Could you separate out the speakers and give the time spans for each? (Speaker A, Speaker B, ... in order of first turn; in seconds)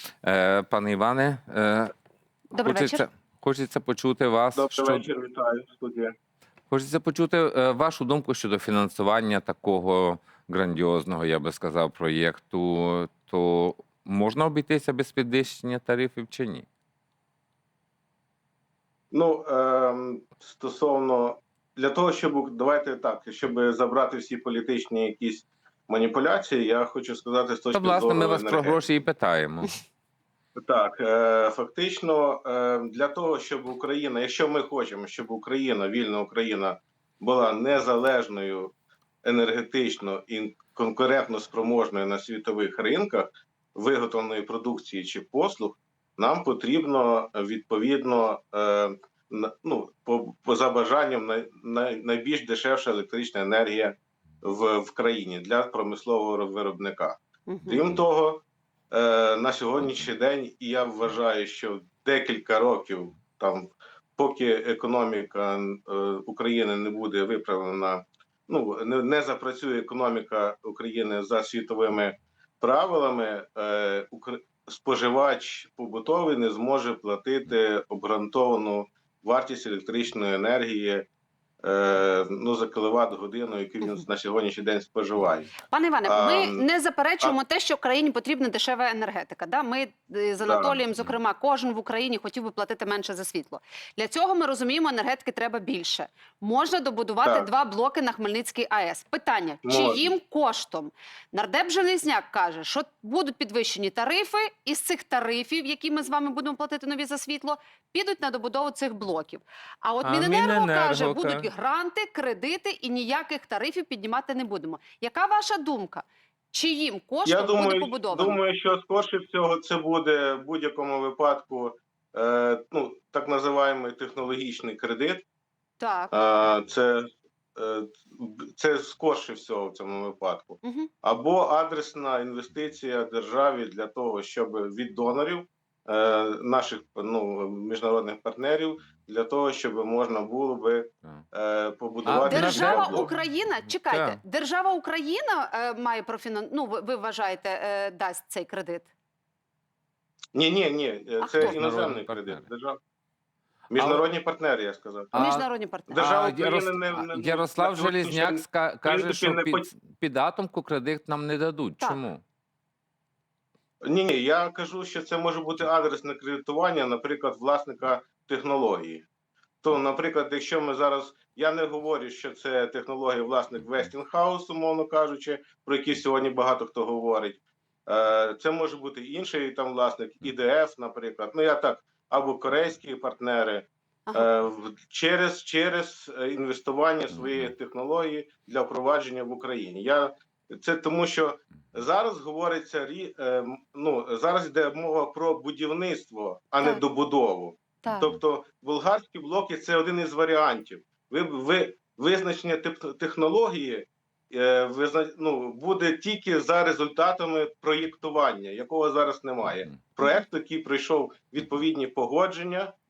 Speaker A: 0.2-1.9, 2.6-5.0, 6.7-16.7, 27.7-29.8, 110.0-111.5, 142.1-143.1, 143.8-144.2, 151.4-152.4, 153.7-154.0, 155.2-155.4, 156.0-162.2
Speaker B: 2.5-3.0, 57.5-57.9, 85.6-118.4, 125.8-126.1, 130.6-130.9, 142.3-148.9, 151.2-151.6, 155.1-156.0, 197.8-198.2
Speaker C: 4.5-6.1, 19.1-28.9, 30.6-38.7, 39.2-81.1, 81.6-86.6, 90.4-90.8, 99.6-100.1, 117.2-125.2, 126.1-143.1, 150.3-152.8, 153.7-155.1, 155.9-159.7, 163.8-169.1, 169.6-212.7